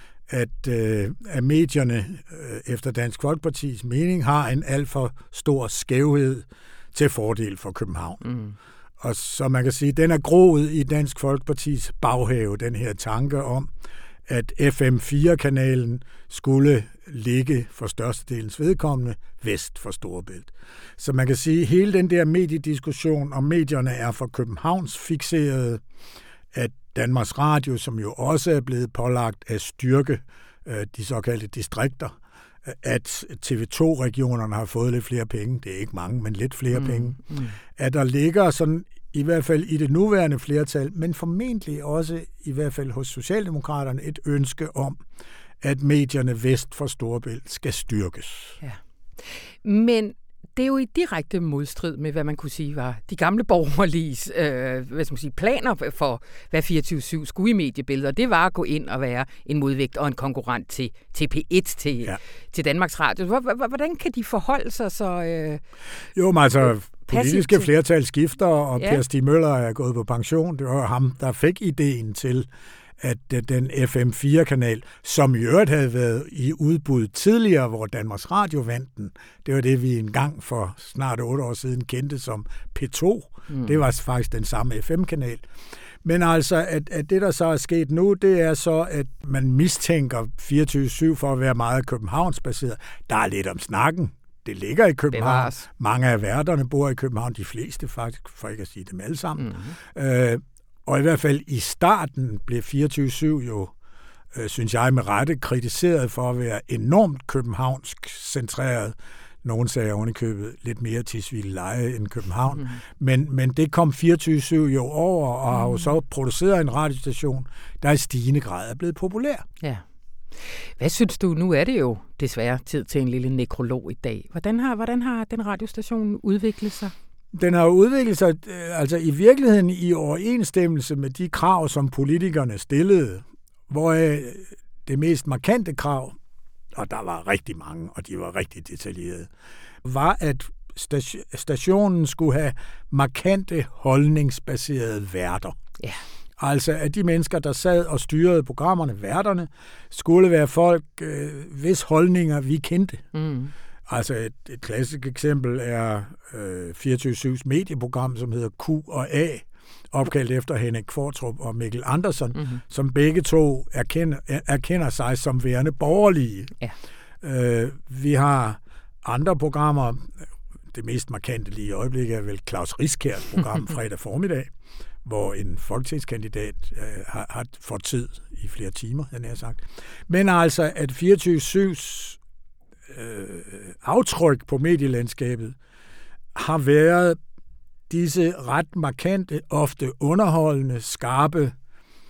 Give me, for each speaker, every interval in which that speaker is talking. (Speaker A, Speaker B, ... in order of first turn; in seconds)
Speaker A: 0.3-8.3, 9.0-13.7, 14.3-25.8, 26.5-45.0, 45.6-48.6, 66.1-72.5, 73.0-85.5, 86.0-103.7, 104.3-119.5, 127.3-136.2, 136.7-139.3, 139.8-145.6, 146.4-153.1, 153.9-166.6, 167.2-170.1, 170.7-174.5, 175.0-182.2, 182.9-185.6, 186.3-187.2, 187.9-191.6
Speaker B: 8.2-8.5, 36.7-37.6, 48.6-65.6, 67.1-67.7, 68.8-69.0, 83.5-83.8, 95.1-95.7, 99.4-99.8, 115.5-115.9, 120.3-126.9, 153.1-153.5, 162.3-162.6